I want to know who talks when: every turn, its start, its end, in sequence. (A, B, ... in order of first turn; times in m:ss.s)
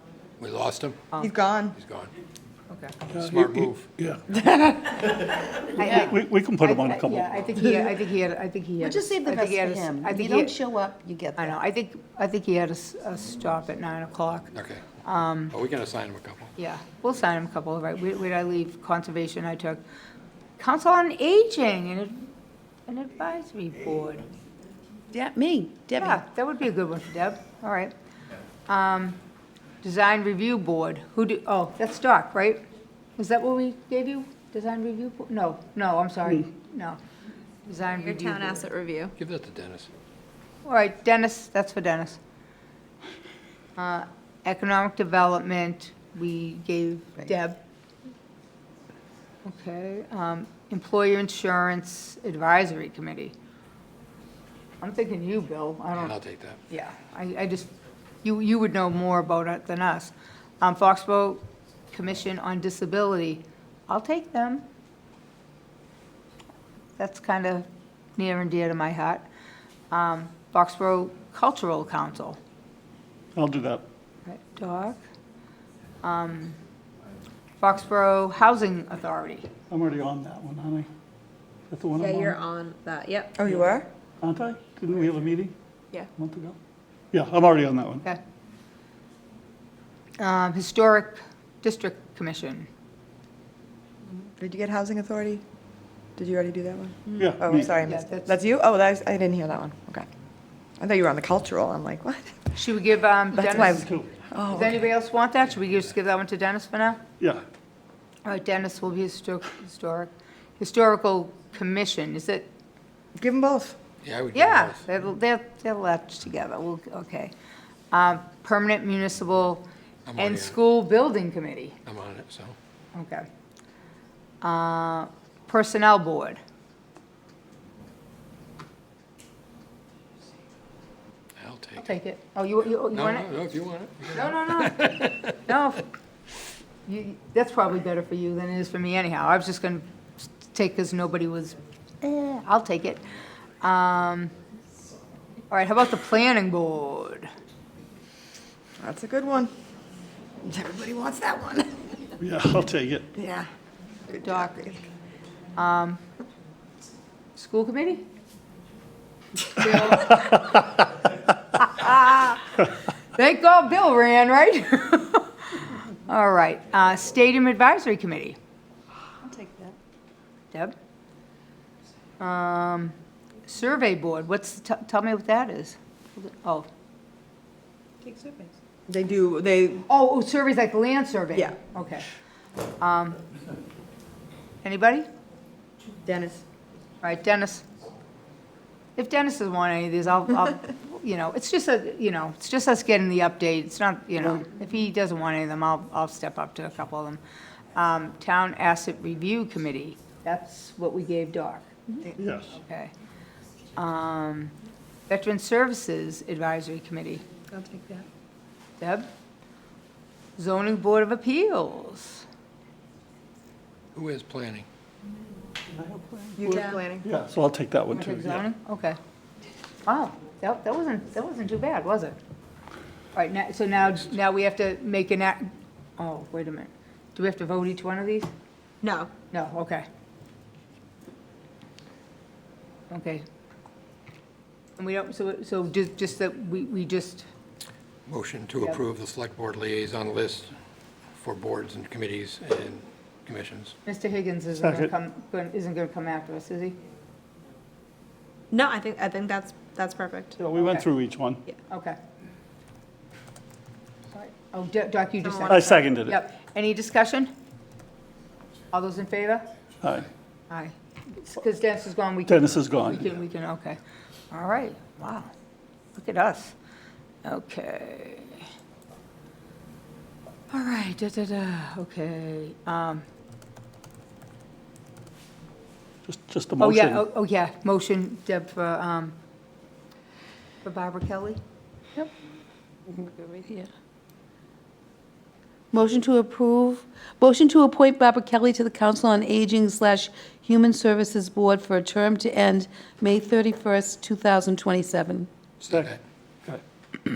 0:00.4-0:01.0 A
0:01.2-0:01.8 B
0:01.7-0:02.1 A
0:02.7-0:03.0 C
0:03.1-0:04.2 D
0:03.1-0:03.8 A
0:05.8-0:10.6 C
0:05.8-0:07.3 D
0:08.8-0:11.6 E
0:11.4-0:14.5 C
0:14.5-0:14.8 A
0:15.0-0:15.5 C
0:15.5-0:16.5 A
0:16.6-0:19.8 C
0:20.6-0:22.3 C
0:22.9-0:24.2 C
0:25.1-0:26.2 E
0:26.0-0:27.9 C
0:28.7-0:29.2 C
0:29.8-0:32.6 C
0:33.2-0:37.0 C
0:37.7-0:38.7 C
0:38.0-0:39.1 F
0:39.2-0:39.9 A
0:40.6-0:42.2 C
0:43.8-0:47.6 C
0:49.4-0:53.3 C
0:54.8-0:56.2 C
0:55.9-0:56.6 A
0:56.7-0:57.7 C
0:58.2-1:04.6 C
1:07.0-1:09.2 C
1:09.9-1:12.4 C
1:13.3-1:13.8 D
1:14.2-1:15.0 C
1:16.0-1:16.6 C
1:17.6-1:19.5 C
1:19.7-1:20.9 D
1:21.7-1:22.4 D
1:22.0-1:23.3 F
1:23.3-1:23.9 B
1:24.2-1:25.5 D
1:26.2-1:26.6 D
1:27.1-1:28.0 D
1:30.2-1:32.7 C
1:34.4-1:35.4 B
1:36.2-1:40.0 B
1:37.2-1:37.7 D
1:37.8-1:38.3 C
1:40.8-1:42.4 B
1:42.5-1:43.9 C
1:43.3-1:44.8 B
1:43.7-1:44.1 D
1:44.5-1:47.0 C
1:48.2-1:52.5 C
1:53.2-1:53.8 B
1:54.0-1:54.8 A
1:54.3-1:57.3 C
1:57.9-1:59.6 C
2:00.0-2:00.6 A
2:00.2-2:01.8 C
2:01.8-2:02.5 A
2:02.9-2:03.2 C
2:04.4-2:06.4 C
2:11.4-2:12.0 A
2:11.8-2:13.3 C
2:12.9-2:15.3 A
2:14.1-2:15.8 C
2:16.8-2:23.0 C
2:23.6-2:24.3 C
2:25.5-2:27.3 C
2:28.8-2:29.5 B
2:30.4-2:31.8 B
2:32.2-2:33.1 D
2:33.1-2:33.5 B
2:34.1-2:34.8 C
2:35.5-2:36.0 C
2:37.4-2:38.0 C
2:39.5-2:40.6 C
2:41.6-2:42.5 C
2:43.1-2:48.4 C
2:49.2-2:49.6 B
2:52.2-2:56.7 C
2:58.0-2:58.4 E
2:58.9-2:59.8 B
2:59.9-3:02.0 C
3:02.8-3:03.2 C
3:04.6-3:05.1 C
3:06.0-3:06.4 B
3:07.0-3:07.6 C
3:09.0-3:17.2 C
3:17.7-3:22.9 C
3:22.2-3:22.5 D
3:23.7-3:24.5 C
3:25.1-3:27.2 C
3:28.8-3:29.1 C
3:30.4-3:32.2 C
3:33.9-3:34.6 A
3:35.7-3:38.4 D
3:36.4-3:37.1 B
3:37.9-3:39.0 C
3:39.8-3:42.2 C
3:43.1-3:48.3 C
3:49.3-3:49.8 C
3:52.9-3:53.2 C
3:54.8-3:57.2 C
3:58.1-4:00.5 A
4:01.2-4:03.7 A
4:03.8-4:06.8 C
4:04.5-4:04.9 D
4:08.5-4:10.3 F
4:10.4-4:11.4 D
4:10.6-4:10.8 C
4:11.7-4:12.0 C
4:14.1-4:17.3 C
4:15.5-4:16.2 D
4:18.7-4:19.5 C
4:19.8-4:20.1 D
4:20.5-4:23.8 C
4:22.3-4:23.0 D
4:24.3-4:25.3 C
4:25.9-4:26.5 C
4:27.2-4:28.4 C
4:30.5-4:33.0 C
4:36.0-4:37.0 D
4:36.6-4:39.1 C
4:40.6-4:41.4 C
4:42.9-4:43.7 E
4:45.7-4:55.3 E
4:55.6-4:56.0 A
4:55.7-4:55.9 D